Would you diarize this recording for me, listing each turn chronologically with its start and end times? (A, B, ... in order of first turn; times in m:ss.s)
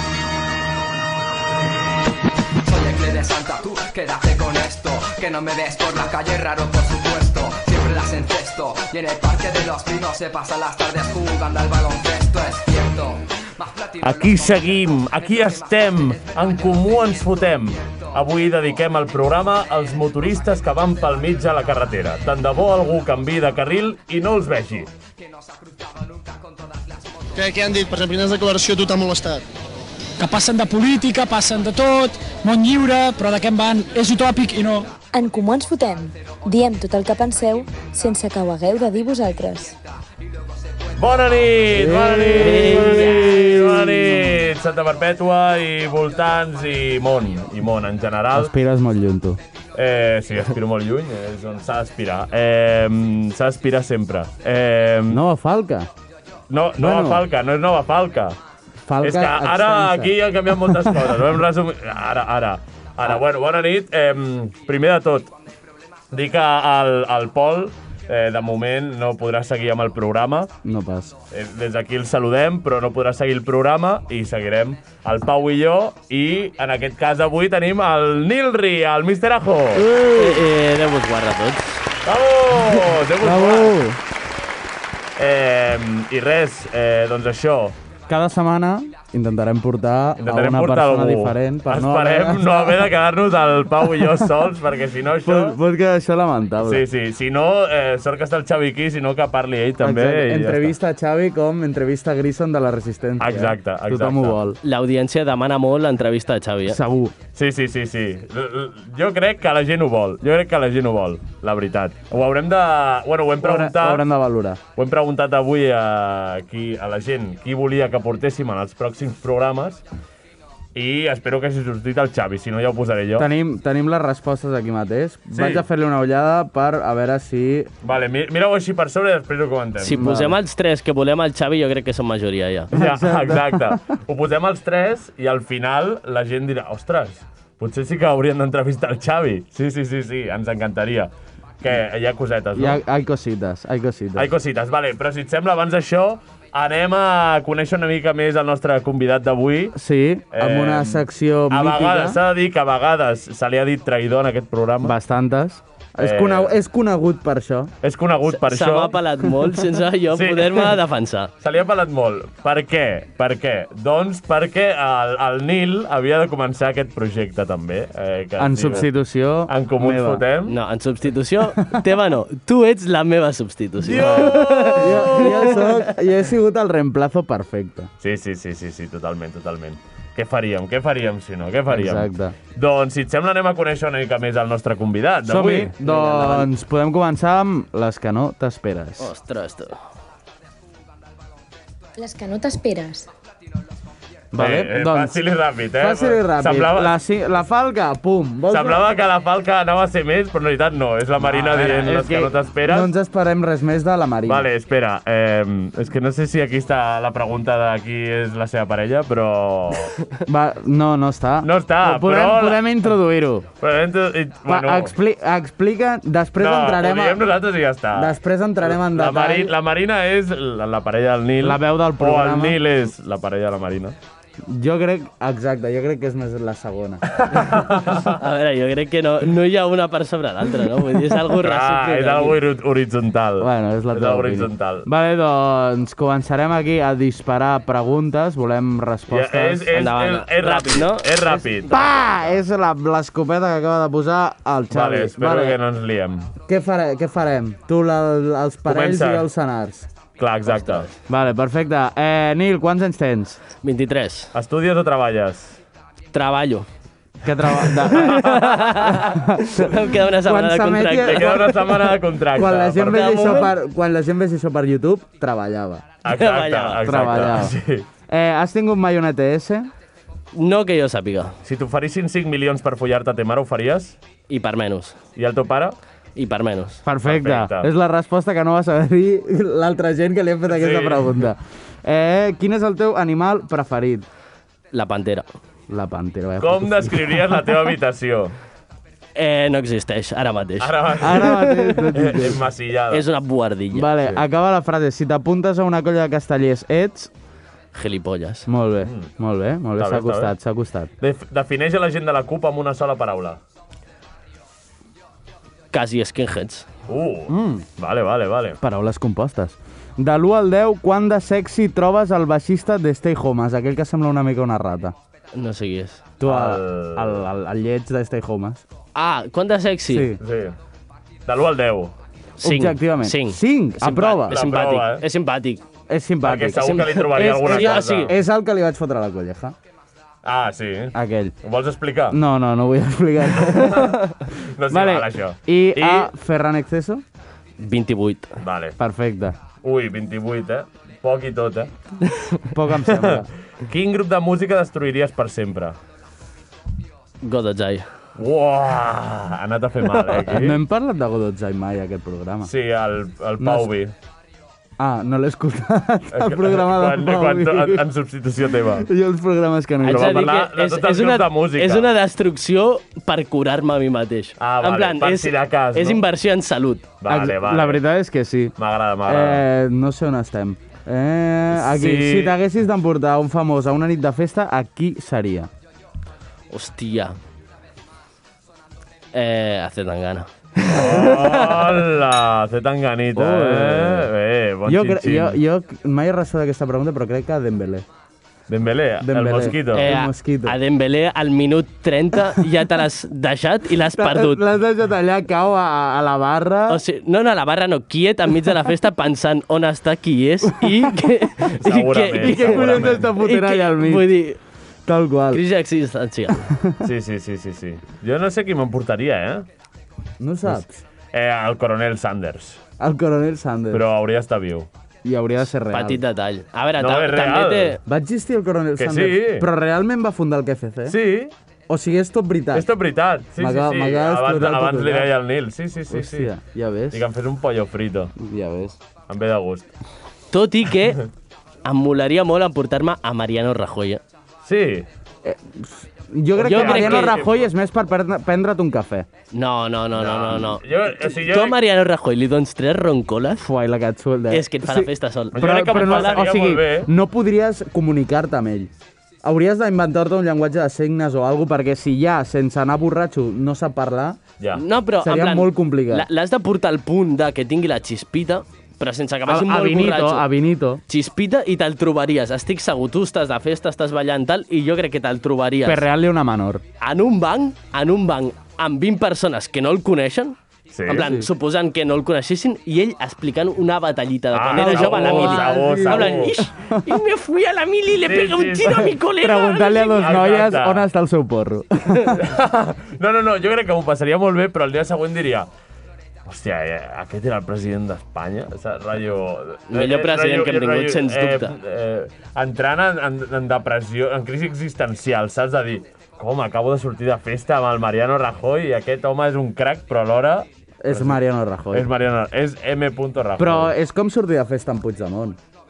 0:02.6-0:21.4 A
0:14.0-0:24.9 B
0:25.2-0:27.3 A
0:27.4-0:29.4 C
0:30.2-0:34.9 D
0:35.1-0:39.7 E
0:40.2-0:42.0 A
0:41.0-0:48.5 B
0:41.7-0:44.2 F
0:42.3-0:43.9 G
0:43.1-0:43.6 A
0:48.3-0:49.4 F
0:49.8-0:55.2 B
0:55.1-0:55.9 F
0:56.5-0:58.4 B
0:56.8-0:57.3 F
0:58.9-1:00.2 F
0:59.0-1:05.3 B
1:00.7-1:01.1 F
1:06.1-1:10.5 B
1:10.6-1:11.2 F
1:11.3-1:19.9 B
1:19.7-1:20.5 F
1:20.2-1:21.8 G
1:22.0-1:23.8 B
1:23.2-1:24.0 F
1:25.2-1:27.8 B
1:28.1-1:32.9 F
1:30.2-1:35.6 B
1:33.8-1:34.3 F
1:35.2-1:36.9 F
1:36.6-1:40.7 B
1:39.8-1:44.6 F
1:43.2-1:44.4 B
1:44.6-1:46.8 G
1:46.7-1:47.2 F
1:47.4-1:54.1 B
1:53.4-1:54.6 F
1:54.8-1:59.8 B
2:00.8-2:03.3 B
2:03.2-2:07.7 F
2:05.3-2:05.6 B
2:07.8-2:10.1 B
2:09.8-2:12.7 G
2:09.9-2:10.4 F
2:12.7-2:22.8 B
2:12.7-2:13.8 F
2:22.6-2:24.3 F
2:24.2-2:29.8 B
2:29.7-2:32.2 F
2:30.3-2:35.0 B
2:34.8-2:37.7 F
2:36.0-2:36.5 B
2:37.8-2:39.0 B
2:38.3-2:41.3 G
2:40.1-2:40.8 B
2:41.4-2:48.9 B
2:48.4-2:50.2 F
2:49.5-2:50.6 B
2:50.5-2:55.7 G
2:53.8-2:55.6 B
2:53.9-2:57.9 F
2:58.0-3:05.7 B
3:01.7-3:02.4 F
3:05.2-3:09.1 F
3:05.8-3:06.5 G
3:09.0-3:09.8 G
3:12.0-3:13.1 E
3:14.3-3:18.8 F
3:14.3-3:17.0 B
3:18.5-3:22.9 B
3:21.2-3:24.5 F
3:24.3-3:30.0 B
3:30.3-3:33.5 F
3:31.4-3:32.8 B
3:33.6-3:34.9 B
3:34.5-3:37.2 F
3:36.4-3:44.0 B
3:37.9-3:39.5 F
3:41.4-3:42.6 F
3:44.5-3:47.2 F
3:47.2-3:48.2 B
3:48.2-3:52.4 G
3:51.4-3:54.9 B
3:53.4-3:59.7 F
3:59.1-4:02.3 B
3:59.7-4:01.6 G
4:01.6-4:05.6 F
4:04.7-4:06.3 B
4:06.4-4:09.9 F
4:08.7-4:09.3 B
4:10.2-4:10.9 B
4:10.5-4:10.9 G
4:11.1-4:13.4 F
4:13.6-4:14.3 G
4:14.3-4:15.6 B
4:16.1-4:16.7 G
4:17.2-4:25.9 F
4:17.8-4:21.6 G
4:18.1-4:18.5 B
4:21.0-4:23.5 B
4:22.8-4:23.5 G
4:26.0-4:27.9 B
4:26.1-4:27.1 G
4:26.8-4:27.6 F
4:28.1-4:29.7 F
4:30.3-4:31.4 G
4:31.4-4:34.0 B
4:34.3-4:35.0 G
4:35.2-4:35.8 B
4:36.2-4:36.8 G
4:36.8-4:44.1 F
4:37.0-4:37.7 B
4:40.5-4:41.2 B
4:44.7-4:45.3 G
4:45.7-4:47.4 F
4:46.4-4:48.4 B
4:49.2-4:50.8 G
4:50.6-4:53.0 B
4:51.0-4:52.4 F
4:52.9-4:53.9 G
4:53.7-4:57.1 F
4:57.7-4:58.5 G
4:58.5-5:00.9 F
4:58.8-4:59.1 B
4:59.8-5:00.3 B
5:01.0-5:03.4 B
5:05.7-5:06.7 G
5:06.9-5:08.6 B
5:08.6-5:15.0 F
5:15.3-5:16.0 G
5:16.2-5:18.6 F
5:16.2-5:17.2 B
5:19.0-5:20.2 G
5:19.9-5:20.2 F
5:20.2-5:20.6 B
5:21.3-5:21.9 B
5:22.4-5:25.6 G
5:22.4-5:24.4 F
5:24.3-5:25.0 B
5:25.9-5:26.8 F
5:26.2-5:28.2 B
5:26.6-5:28.1 G
5:27.4-5:29.6 F
5:30.2-5:32.2 B
5:30.9-5:31.4 F
5:32.1-5:34.0 F
5:33.4-5:36.1 B
5:34.7-5:37.0 F
5:37.6-5:38.3 G
5:38.4-5:38.8 B
5:38.8-5:39.4 F
5:39.6-5:41.7 B
5:42.5-5:43.3 F
5:42.8-5:45.8 B
5:47.2-5:47.9 G
5:48.2-5:50.6 B
5:50.3-5:52.5 F
5:52.4-5:53.9 B
5:53.4-5:53.7 F
5:54.8-5:57.9 F
5:56.1-5:58.9 B
5:58.7-6:00.2 F
5:59.8-6:06.9 G
5:59.9-6:01.9 B
6:04.4-6:06.0 B
6:07.0-6:07.8 B
6:07.1-6:15.5 F
6:08.6-6:09.4 B
6:11.5-6:12.4 B
6:16.5-6:17.2 G
6:19.1-6:21.8 G
6:20.7-6:25.4 B
6:23.2-6:24.1 F
6:24.7-6:27.8 F
6:28.5-6:29.9 B
6:29.0-6:30.6 F
6:29.7-6:34.4 G
6:33.8-6:36.8 F
6:36.7-6:44.4 G
6:41.6-6:43.1 B
6:42.2-6:44.2 F
6:44.9-6:45.4 F
6:45.3-6:46.5 G
6:46.6-6:46.8 F
6:46.8-6:49.5 B
6:50.2-6:50.8 F
6:51.1-6:52.6 B
6:52.8-6:53.9 F
6:53.7-6:54.7 B
6:55.0-6:56.0 F
6:55.7-6:57.8 G
6:56.8-6:57.8 B
6:57.9-7:01.0 F
6:58.8-6:59.5 B
7:00.9-7:01.3 B
7:01.7-7:02.7 F
7:02.5-7:06.3 B
7:03.4-7:05.1 F
7:05.9-7:07.0 F
7:06.9-7:08.1 B
7:08.2-7:08.8 F
7:09.1-7:09.7 B
7:10.3-7:11.1 G
7:11.6-7:14.0 G
7:14.4-7:14.9 B
7:15.2-7:19.1 F
7:16.4-7:17.5 B
7:16.4-7:17.2 G
7:19.3-7:23.4 G
7:20.0-7:21.6 B
7:23.4-7:28.7 F
7:24.3-7:26.2 G
7:25.4-7:26.9 B
7:29.2-7:34.2 F
7:34.6-7:40.3 G
7:35.0-7:36.1 F
7:39.3-7:40.8 F
7:40.9-7:45.8 G
7:45.6-7:46.6 F
7:46.8-8:00.0 G
7:50.7-7:51.2 B
7:50.9-7:51.3 F
7:54.3-7:56.4 B
7:54.5-7:56.8 F
7:58.0-7:59.0 B
7:59.2-8:02.3 F
7:59.9-8:00.9 B
8:02.2-8:05.5 B
8:06.3-8:21.2 B
8:09.7-8:11.5 G
8:20.8-8:21.9 F
8:21.7-8:23.7 B
8:23.4-8:25.4 F